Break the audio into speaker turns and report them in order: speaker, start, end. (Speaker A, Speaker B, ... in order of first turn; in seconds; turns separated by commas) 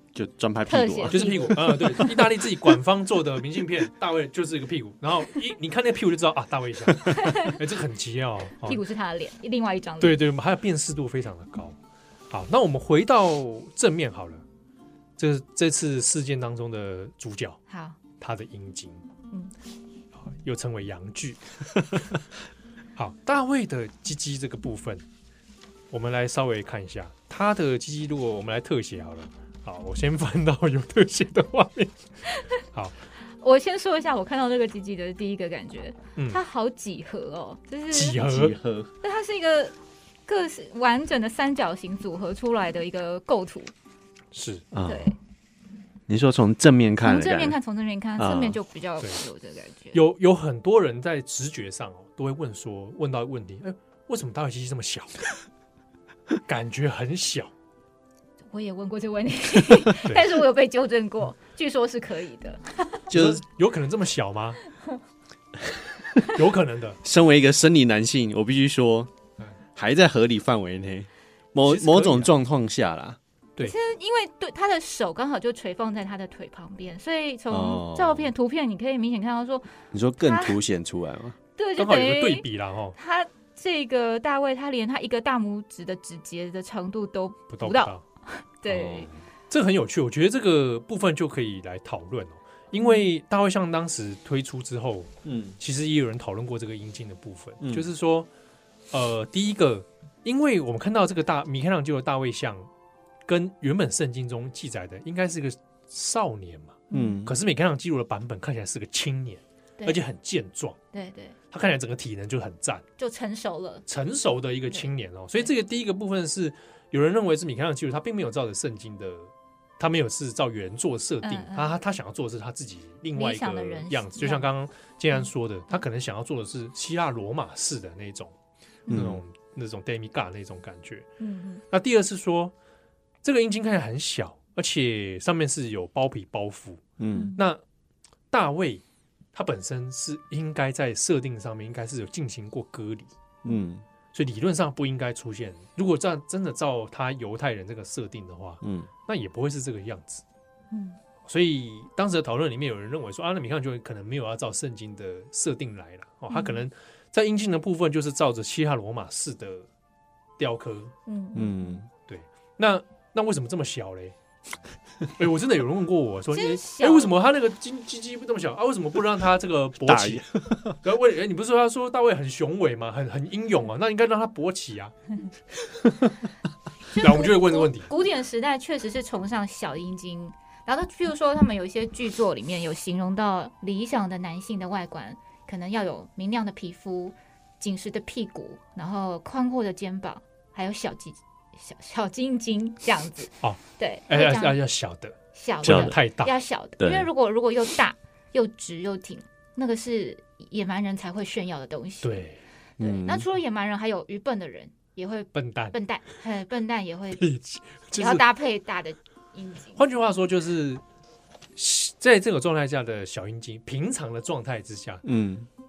Speaker A: 0.1-2.2, Speaker B: 0.7-2.1, Speaker C: 1.1-8.8, Speaker B: 7.1-7.6, Speaker B: 8.6-10.2, Speaker C: 10.0-11.8, Speaker C: 12.3-14.4, Speaker C: 15.2-17.6, Speaker B: 17.7-18.0, Speaker C: 18.2-19.1, Speaker C: 20.2-22.2, Speaker C: 23.0-25.0, Speaker C: 25.9-32.0, Speaker B: 33.4-38.4, Speaker C: 37.9-38.6, Speaker A: 38.1-38.9, Speaker B: 39.0-39.8, Speaker B: 40.3-43.7, Speaker C: 44.3-44.7, Speaker A: 44.7-45.1, Speaker B: 44.9-45.2, Speaker A: 46.1-47.6, Speaker B: 47.0-50.0, Speaker A: 48.2-48.6, Speaker C: 49.9-55.4, Speaker C: 56.5-57.5, Speaker B: 58.5-63.1, Speaker C: 60.0-60.4, Speaker A: 63.1-63.4, Speaker C: 63.1-64.6, Speaker C: 66.2-67.0, Speaker A: 67.0-69.1, Speaker A: 69.8-73.2, Speaker C: 71.7-72.3, Speaker B: 73.6-80.6, Speaker A: 77.5-78.3, Speaker A: 79.9-81.4, Speaker B: 81.6-89.1, Speaker C: 81.8-83.0, Speaker C: 87.5-88.0, Speaker A: 88.7-89.1, Speaker C: 89.5-98.3, Speaker B: 92.8-93.0, Speaker A: 95.2-95.6, Speaker A: 97.6-97.9, Speaker C: 98.9-102.7, Speaker C: 103.3-110.8, Speaker B: 106.9-107.2, Speaker A: 106.9-107.3, Speaker B: 110.9-111.4, Speaker C: 111.5-112.8, Speaker B: 113.0-113.8, Speaker C: 113.9-128.3, Speaker B: 121.2-121.7, Speaker B: 123.2-124.5, Speaker B: 125.2-125.8, Speaker A: 128.9-129.2, Speaker C: 128.9-131.1, Speaker B: 131.2-131.6, Speaker C: 131.7-132.5, Speaker C: 133.2-136.8, Speaker A: 137.0-137.3, Speaker B: 137.1-137.4, Speaker C: 137.4-137.6, Speaker C: 138.3-138.8, Speaker C: 139.3-143.1, Speaker A: 143.4-143.8, Speaker C: 144.1-150.2, Speaker A: 148.6-148.9, Speaker B: 150.7-151.0, Speaker C: 151.3-159.7, Speaker B: 156.3-156.6, Speaker C: 160.4-160.9, Speaker B: 161.1-161.8, Speaker A: 161.3-161.9, Speaker C: 162.1-164.2, Speaker C: 165.2-174.9, Speaker B: 166.3-167.2, Speaker A: 169.8-170.8, Speaker C: 175.7-176.2, Speaker B: 176.9-194.6, Speaker C: 177.0-177.9, Speaker C: 193.4-196.4, Speaker B: 195.3-202.3, Speaker A: 195.6-195.9, Speaker A: 196.8-197.1, Speaker C: 202.0-202.4, Speaker A: 202.8-203.3, Speaker B: 202.8-207.2, Speaker C: 205.3-205.8, Speaker C: 207.2-208.2, Speaker B: 208.0-209.8, Speaker C: 209.8-210.8, Speaker C: 211.6-215.0, Speaker A: 215.0-215.5